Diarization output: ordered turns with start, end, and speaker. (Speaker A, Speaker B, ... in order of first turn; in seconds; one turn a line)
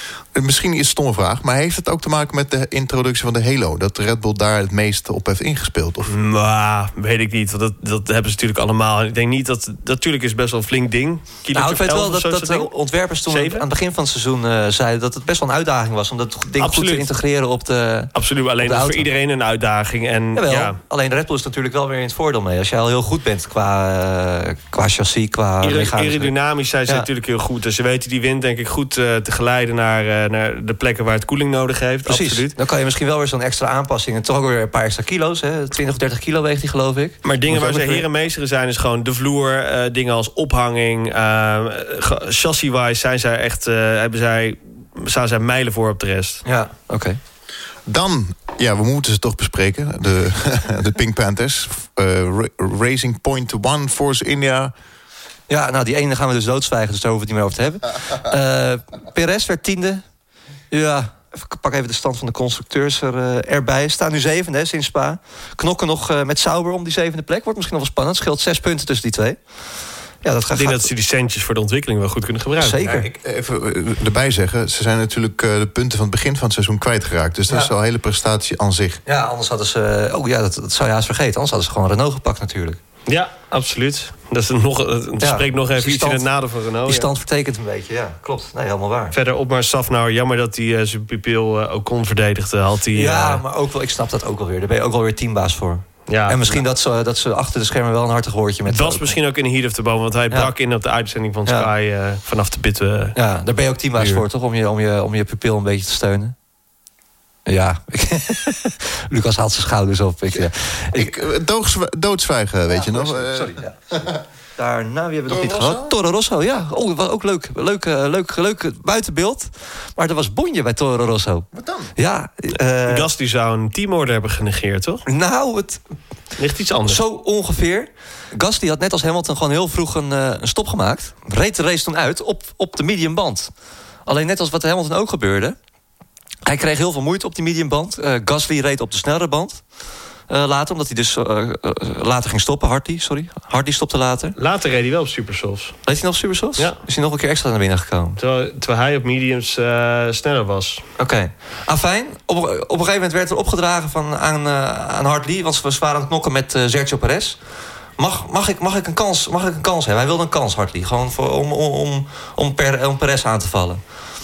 Speaker A: 0.3-6.1
Speaker B: 6.1-12.7
Speaker C: 11.5-19.1
Speaker B: 13.3-13.7
Speaker B: 16.6-17.1
Speaker B: 18.1-20.8
Speaker C: 20.3-26.3
Speaker B: 25.6-32.5
Speaker C: 32.1-38.1
Speaker B: 37.2-46.4
Speaker C: 46.5-47.2
Speaker A: 47.9-54.7
Speaker C: 55.5-60.0
Speaker C: 60.7-69.4
Speaker C: 70.2-70.9
Speaker B: 70.5-72.8
Speaker C: 72.6-73.1
Speaker A: 72.8-79.0
Speaker C: 79.1-82.8
Speaker B: 83.1-87.1
Speaker C: 85.2-86.3
Speaker C: 86.9-89.1
Speaker B: 89.1-93.4
Speaker C: 92.9-99.2
Speaker B: 96.1-96.6
Speaker B: 98.7-103.2
Speaker C: 103.2-106.3
Speaker C: 107.5-111.2
Speaker A: 110.3-114.2
Speaker C: 112.7-113.8
Speaker C: 114.6-123.1
Speaker A: 115.3-115.9
Speaker A: 121.5-121.9
Speaker B: 122.9-125.1
Speaker C: 125.1-125.8
Speaker B: 126.4-127.0
Speaker C: 126.8-133.5
Speaker C: 134.1-135.6
Speaker C: 136.5-139.7
Speaker C: 140.3-144.4
Speaker B: 144.4-145.8
Speaker C: 145.9-148.2
Speaker B: 148.2-150.8
Speaker C: 151.0-157.4
Speaker C: 158.0-163.8